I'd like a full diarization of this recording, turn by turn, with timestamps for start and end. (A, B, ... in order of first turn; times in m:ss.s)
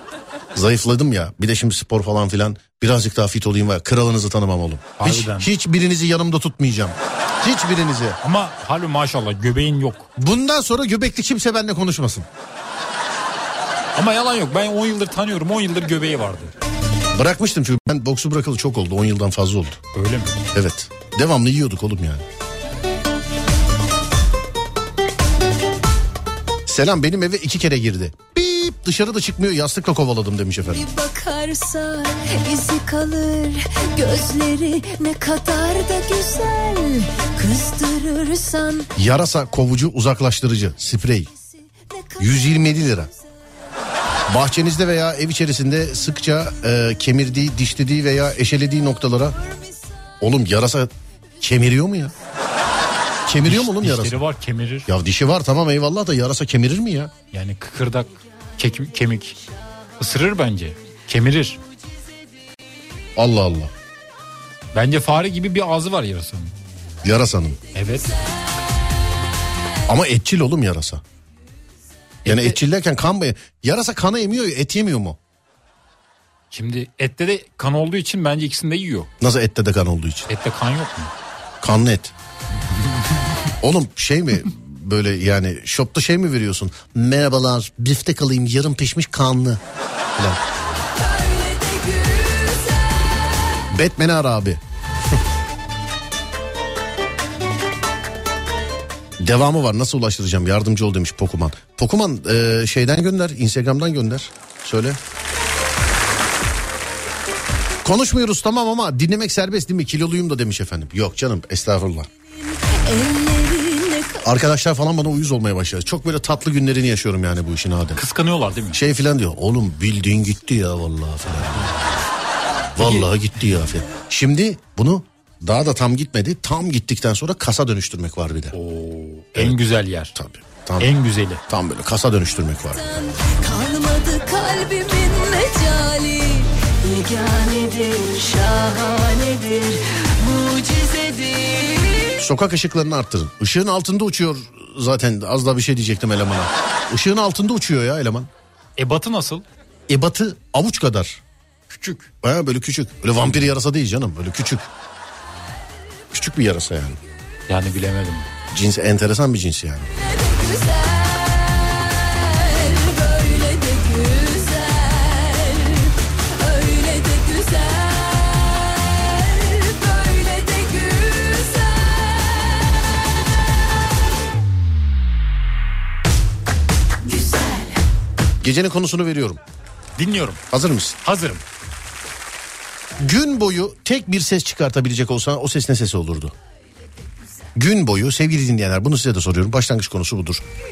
0:00.5-0:08.2 A
0:05.0-0:05.5 B
0:08.2-0:10.1 B
0:10.2-0:12.3 A
0:14.0-0:16.5 B
0:17.1-0:19.8 A
0:19.9-0:20.4 B
0:20.5-0:22.2 A
0:26.7-0:30.9 A
0:30.7-0:38.9 C
0:39.0-0:41.3 A
0:41.9-0:42.2 C
0:42.2-0:43.1 A
0:44.3-0:49.4 A
0:50.2-0:52.1 A
0:53.2-0:54.2 A
0:53.4-0:54.9 B
0:54.9-0:57.1 A
0:57.3-0:59.3 B
1:00.0-1:01.6 B
1:03.2-1:03.7 A
1:04.7-1:06.6 B
1:07.0-1:07.6 A
1:07.7-1:08.1 B
1:09.9-1:11.0 A
1:12.2-1:12.6 B
1:12.2-1:15.2 A
1:16.5-1:19.1 B
1:19.2-1:20.3 A
1:20.3-1:21.1 B
1:21.6-1:22.1 A
1:23.6-1:29.6 A
1:30.1-1:30.4 A
1:31.0-1:33.1 C
1:33.7-1:34.6 A
1:39.2-1:45.0 A
1:47.8-1:52.1 A
1:52.6-1:54.2 C
1:54.2-1:58.0 A
1:58.0-1:58.8 B
1:58.7-2:02.0 A
2:02.8-2:08.6 A
2:02.8-2:03.1 B
2:08.5-2:10.2 B
2:10.1-2:10.9 A
2:10.8-2:11.4 B
2:11.5-2:13.1 A
2:12.8-2:22.1 C
2:22.2-2:28.3 A
2:28.8-2:29.4 B
2:29.9-2:31.2 A
2:31.7-2:32.1 B
2:32.2-2:34.7 A
2:36.1-2:37.0 A
2:37.5-2:38.3 B
2:38.5-2:39.9 A
2:40.2-2:52.9 C
2:57.0-2:57.8 C
2:58.4-2:59.4 A
3:00.0-3:00.4 B
3:00.5-3:01.0 A
3:01.0-3:01.4 B
3:03.0-3:06.4 A
3:07.6-3:10.4 A